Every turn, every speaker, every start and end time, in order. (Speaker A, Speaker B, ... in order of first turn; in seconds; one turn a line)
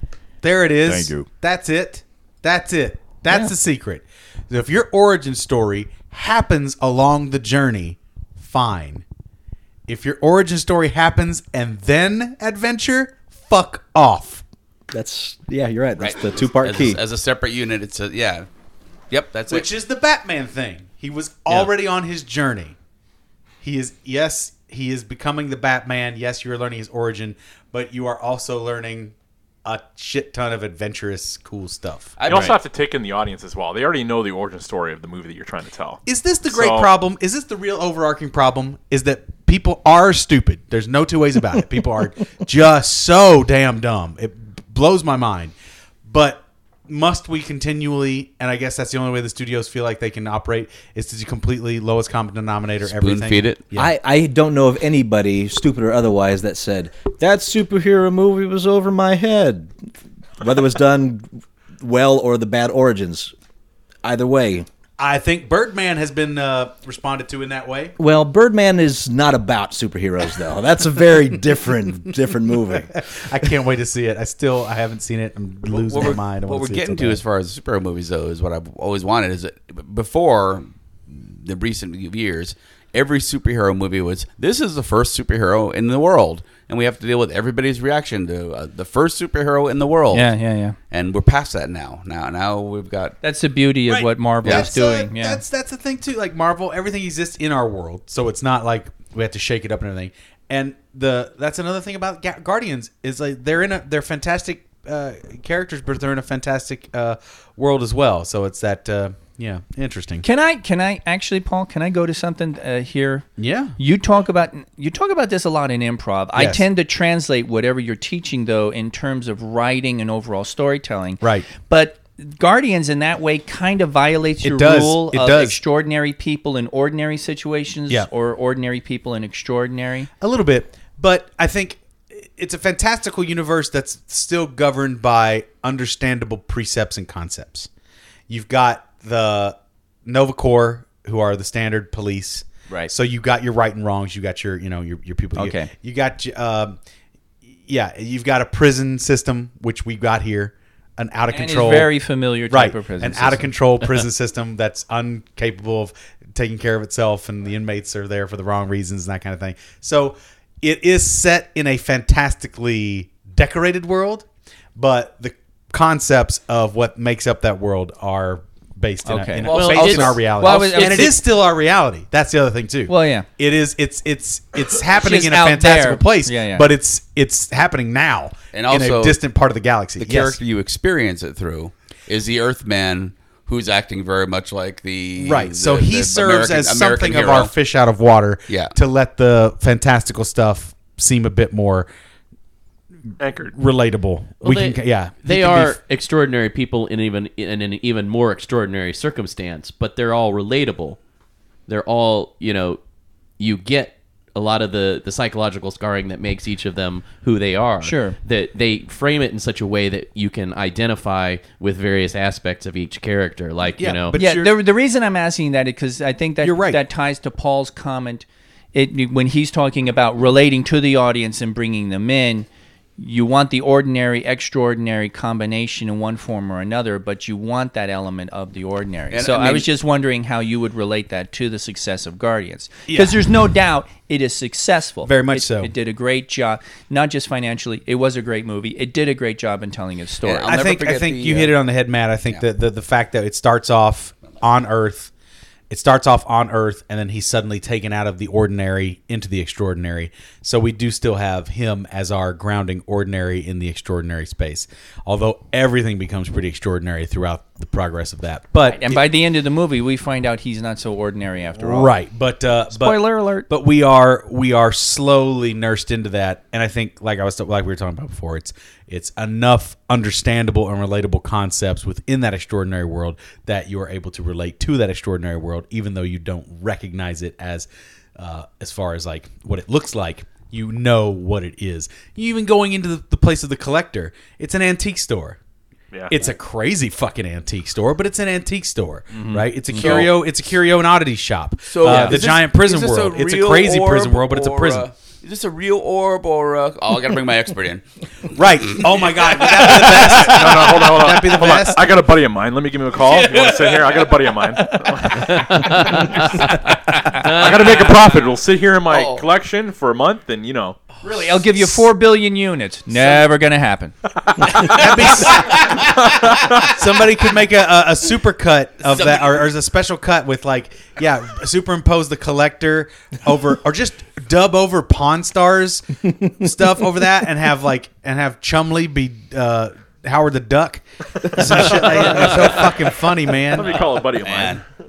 Speaker A: 0.4-9.0
Speaker A: 9.9-14.4
Speaker B: 14.9-17.0
Speaker C: 16.0-18.5
Speaker C: 19.1-19.7
Speaker A: 19.5-22.8
Speaker A: 23.6-29.1
Speaker A: 29.6-32.2
Speaker C: 32.2-32.6
Speaker D: 32.2-36.9
Speaker A: 36.1-45.5
Speaker A: 46.1-53.9
Speaker C: 52.8-53.6
Speaker B: 53.8-59.7
Speaker B: 60.4-61.3
Speaker B: 61.8-63.3
Speaker B: 64.0-64.7
Speaker A: 65.0-68.0
Speaker B: 68.0-73.0
Speaker A: 73.0-77.2
Speaker C: 75.7-90.3
Speaker E: 90.1-90.8
Speaker C: 90.9-93.2
Speaker E: 93.2-95.4
Speaker A: 93.9-110.2
Speaker C: 94.4-94.7
Speaker E: 110.2-113.3
Speaker A: 113.4-113.7
Speaker E: 113.8-130.1
Speaker A: 116.3-116.6
Speaker A: 121.2-121.5
Speaker A: 124.4-125.6
Speaker A: 130.2-137.7
Speaker A: 138.3-146.8
Speaker E: 145.3-145.7
Speaker A: 147.7-151.9
Speaker E: 151.3-153.5
Speaker A: 152.5-180.4
Speaker E: 169.1-169.5
Speaker C: 169.4-170.4
Speaker F: 169.5-171.2
Speaker E: 170.4-171.2
Speaker E: 172.9-173.3
Speaker E: 174.9-176.7
Speaker C: 178.5-179.2
Speaker C: 180.0-187.5
Speaker A: 185.2-191.9
Speaker C: 188.5-188.7
Speaker D: 193.2-193.6
Speaker A: 193.5-195.8
Speaker F: 194.4-201.0
Speaker F: 201.7-202.8
Speaker F: 203.4-214.1
Speaker E: 207.8-208.2
Speaker A: 213.8-214.6
Speaker E: 214.1-222.5
Speaker A: 216.4-216.8
Speaker E: 223.0-240.6
Speaker C: 229.1-229.7
Speaker A: 232.9-233.2
Speaker A: 235.0-235.7
Speaker C: 240.3-241.6
Speaker A: 240.5-245.1
Speaker A: 245.7-259.0
Speaker E: 258.6-261.9
Speaker A: 261.6-285.4
Speaker E: 262.7-263.5
Speaker A: 286.1-294.9
Speaker E: 289.1-290.0
Speaker C: 289.7-290.2
Speaker C: 291.7-297.8
Speaker E: 291.9-292.1
Speaker A: 298.3-302.0
Speaker C: 298.6-300.7
Speaker D: 300.0-305.4
Speaker C: 303.0-304.2
Speaker F: 305.3-306.5
Speaker E: 307.0-307.3
Speaker F: 307.2-307.8
Speaker D: 307.3-310.8
Speaker C: 308.9-309.3
Speaker E: 311.0-313.9
Speaker A: 314.6-315.9
Speaker C: 314.6-316.6
Speaker A: 316.7-333.8
Speaker C: 318.9-319.5
Speaker D: 333.4-334.6
Speaker C: 334.2-334.6